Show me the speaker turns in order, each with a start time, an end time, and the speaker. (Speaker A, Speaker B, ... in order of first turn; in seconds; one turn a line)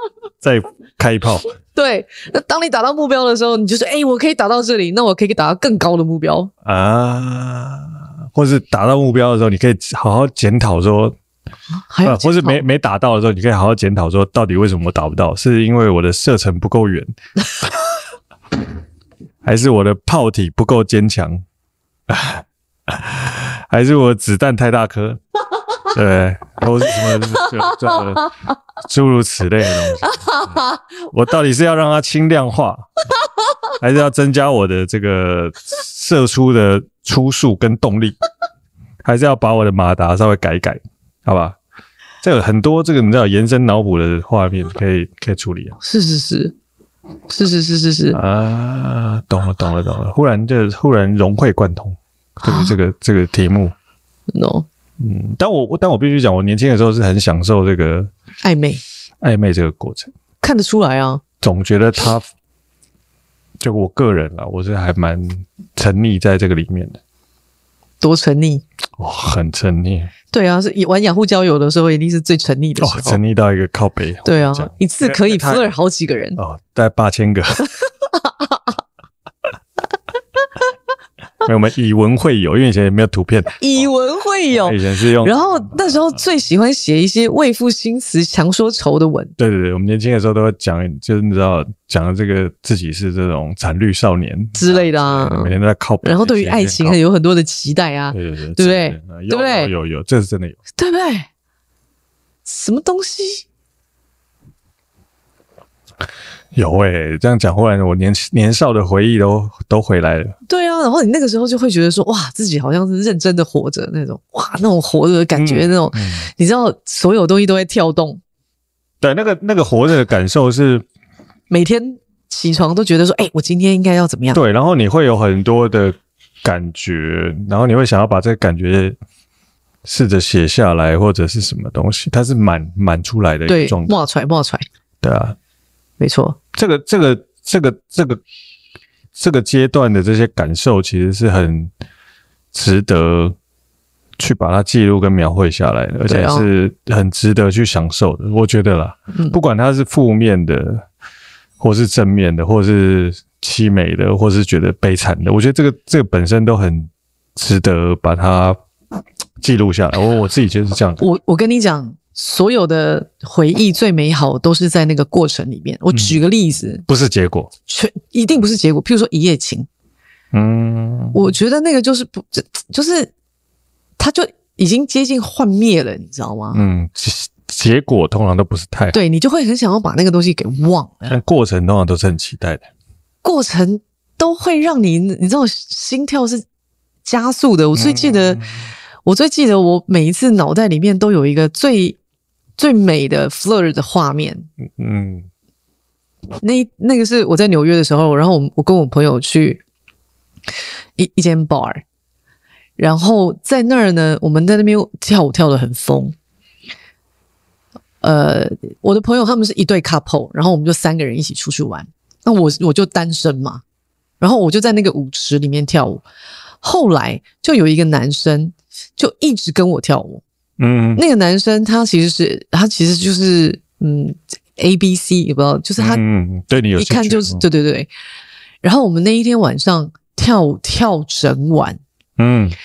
Speaker A: 0.4-1.5
Speaker B: 1.7-6.5
Speaker A: 6.6-11.2
Speaker B: 11.9-12.6
Speaker A: 12.0-17.1
Speaker A: 19.4-21.4
Speaker A: 22.1-25.2
Speaker A: 25.8-30.6
Speaker B: 27.1-28.3
Speaker B: 30.0-30.8
Speaker A: 31.1-32.8
Speaker A: 33.8-38.2
Speaker A: 39.0-41.6
Speaker A: 42.2-45.8
Speaker B: 45.8-46.5
Speaker B: 47.3-48.2
Speaker A: 48.1-53.7
Speaker B: 52.4-52.7
Speaker B: 54.3-54.6
Speaker A: 55.0-58.1
Speaker B: 58.4-58.8
Speaker A: 59.2-60.1
Speaker B: 60.4-61.2
Speaker A: 61.4-62.3
Speaker A: 63.6-67.0
Speaker B: 68.0-68.6
Speaker A: 69.0-70.1
Speaker B: 70.3-73.2
Speaker A: 72.8-75.7
Speaker B: 74.2-76.4
Speaker A: 76.4-77.7
Speaker B: 78.1-78.7
Speaker A: 81.4-83.9
Speaker B: 83.6-89.3
Speaker A: 84.5-86.0
Speaker A: 89.4-97.0
Speaker B: 94.6-99.7
Speaker A: 98.1-100.6
Speaker B: 100.8-101.3
Speaker B: 102.4-103.4
Speaker A: 106.5-110.3
Speaker B: 110.5-118.2
Speaker A: 115.3-116.3
Speaker A: 119.0-120.8
Speaker B: 121.5-124.4
Speaker A: 124.3-129.0
Speaker A: 129.8-133.9
Speaker B: 133.5-134.6
Speaker A: 135.0-135.3
Speaker B: 136.0-136.4
Speaker A: 136.5-138.2
Speaker A: 139.1-141.7
Speaker A: 142.5-143.3
Speaker A: 144.2-150.8
Speaker B: 146.1-146.4
Speaker B: 149.1-149.4
Speaker A: 151.6-158.6
Speaker A: 159.4-161.0
Speaker B: 161.0-166.8
Speaker A: 165.9-166.2
Speaker A: 166.8-167.5
Speaker B: 167.7-169.7
Speaker A: 170.3-171.3
Speaker B: 171.1-173.1
Speaker B: 174.0-176.6
Speaker A: 176.5-179.0
Speaker B: 178.9-181.2
Speaker A: 181.1-182.7
Speaker B: 183.2-186.4
Speaker B: 187.0-188.4
Speaker A: 187.7-188.7
Speaker B: 189.0-192.0
Speaker B: 192.6-194.5
Speaker A: 194.6-195.3
Speaker B: 196.4-199.6
Speaker B: 201.0-201.8
Speaker B: 202.8-206.2
Speaker B: 208.0-213.6
Speaker B: 214.2-216.0
Speaker B: 216.6-220.2
Speaker A: 220.6-221.0
Speaker B: 220.9-226.0
Speaker A: 225.8-227.4
Speaker B: 226.8-227.9
Speaker B: 228.6-231.8
Speaker A: 232.2-232.6